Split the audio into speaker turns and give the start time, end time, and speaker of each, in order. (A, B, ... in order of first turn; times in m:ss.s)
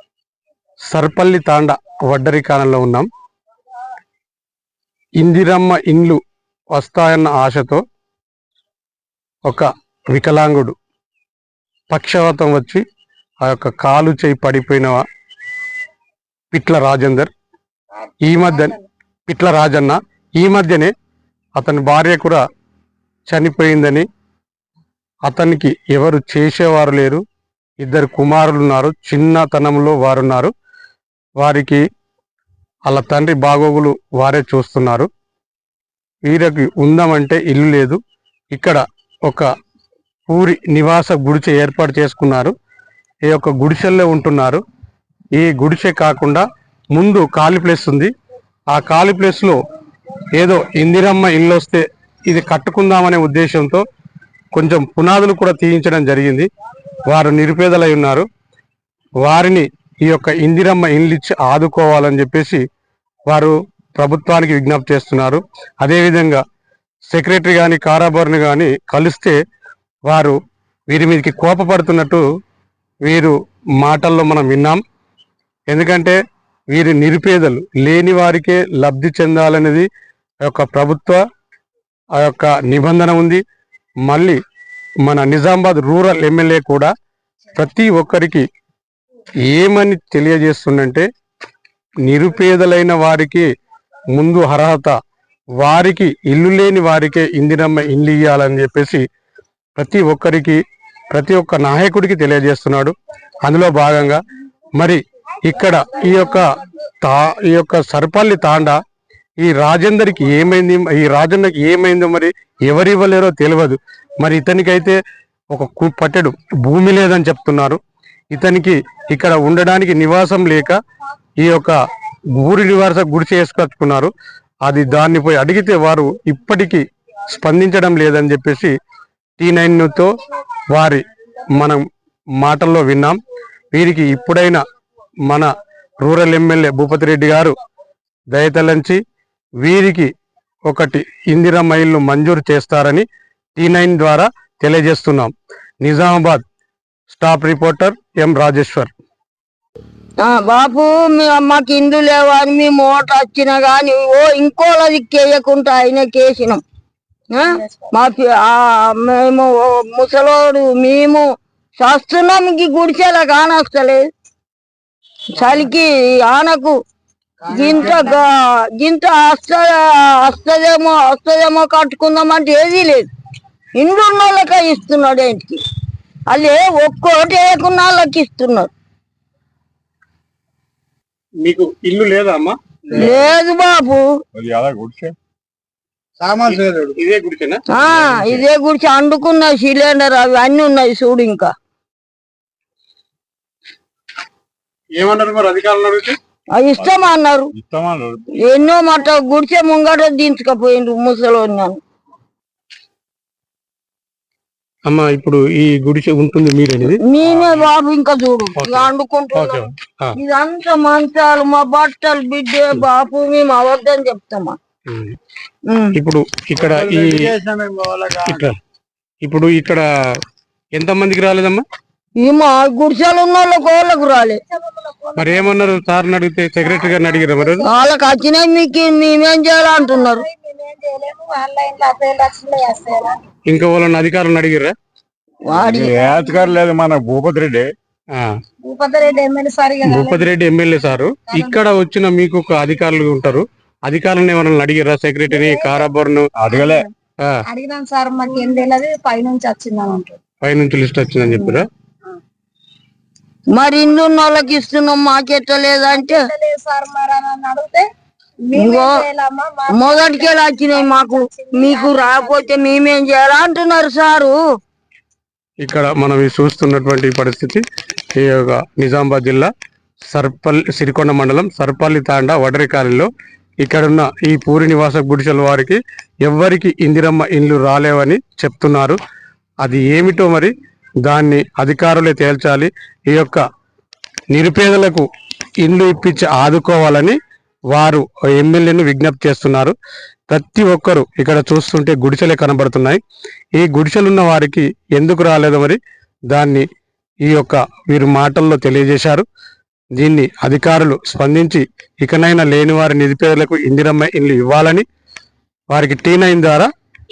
0:00.9-0:03.1 A
0:05.2-0:06.2 A
0:06.7-0:07.8 A
0:09.4-0:10.8 A
0:11.9-0:12.8 A
0:13.4-0:15.0 A
0:16.5-0:17.3 A
0:18.2-0:18.8 A
0:18.4-0:18.8 B
0:19.3-0:20.9 A
0:21.6-0:22.4 A
0:23.3-0:24.0 A
0:25.2-0:27.2 A
0:27.8-0:30.5 A
0:31.4-0:31.8 A
0:32.9-0:35.1 A
0:36.2-0:38.0 A
0:38.5-0:39.5 A
0:40.3-0:42.5 A
0:43.2-0:44.6 A
0:45.4-0:48.1 A
0:48.7-0:49.6 A
0:50.3-0:53.8 A
0:54.5-0:56.5 A
0:57.1-0:58.2 A
0:59.2-1:02.6 A
1:03.3-1:06.4 A
1:07.1-1:09.4 A
1:10.1-1:10.4 A
1:10.9-1:12.2 A
1:13.0-1:14.8 A
1:15.7-1:16.2 A
1:16.7-1:19.9 A
1:20.4-1:21.2 A
1:22.2-1:23.4 A
1:24.1-1:24.4 A
1:25.0-1:26.9 A
1:27.6-1:28.4 A
1:29.5-1:31.1 A
1:32.0-1:33.5 A
1:34.1-1:34.9 A
1:35.6-1:39.0 A
1:39.8-1:44.2 A
1:44.8-1:46.4 A
1:47.0-1:48.8 A
1:49.4-1:55.0 A
1:55.5-1:57.8 A
1:58.3-2:00.8 A
2:01.4-2:01.8 A
2:02.3-2:04.1 A
2:04.6-2:08.7 A
2:09.4-2:10.1 A
2:10.7-2:11.8 A
2:12.4-2:13.2 A
2:13.7-2:14.6 A
2:15.3-2:17.5 A
2:18.3-2:19.0 A
2:19.6-2:20.1 A
2:20.7-2:26.4 A
2:27.1-2:28.9 A
2:30.2-2:36.6 C
2:37.3-2:41.2 C
2:41.8-2:44.0 C
2:45.3-2:46.8 C
2:47.5-2:53.1 C
2:53.8-2:55.6 C
2:56.3-2:58.7 C
3:01.4-3:03.2 A
3:02.9-3:04.1 C
3:04.3-3:05.1 D
3:06.4-3:07.7 A
3:07.7-3:11.5 C
3:08.0-3:08.4 D
3:15.0-3:16.2 A
3:16.5-3:17.5 C
3:17.5-3:18.2 D
3:18.4-3:21.8 C
3:24.8-3:27.7 A
3:27.0-3:34.6 C
3:28.6-3:30.2 A
3:34.9-3:35.2 A
3:35.7-3:35.9 C
3:35.9-3:37.4 A
3:38.2-3:38.6 A
3:39.2-3:39.8 A
3:40.7-3:41.6 A
3:42.2-3:44.4 C
3:44.0-3:45.8 B
3:45.2-3:47.7 A
3:46.6-3:47.7 B
3:47.6-3:50.2 C
3:49.7-3:53.1 B
3:53.5-3:54.7 A
3:55.5-3:55.9 C
3:55.5-3:57.7 D
3:55.9-3:56.6 B
3:58.6-4:00.3 B
3:59.8-4:06.3 A
4:01.3-4:01.6 B
4:05.3-4:05.9 B
4:06.4-4:06.8 D
4:06.5-4:06.8 B
4:07.5-4:10.2 B
4:10.4-4:11.7 A
4:13.5-4:16.2 C
4:15.9-4:17.8 B
4:18.5-4:22.7 B
4:18.5-4:19.0 C
4:19.7-4:24.3 C
4:25.6-4:27.6 A
4:28.2-4:29.5 A
4:30.1-4:39.0 A
4:39.6-4:40.5 A
4:41.0-4:43.4 A
4:44.3-4:45.1 A
4:45.6-4:47.2 A
4:47.7-4:49.7 A
4:50.3-4:53.0 A
4:53.6-4:55.8 A
4:56.3-4:56.7 A
4:57.3-4:59.2 A
5:00.0-5:04.8 A
5:05.7-5:06.7 A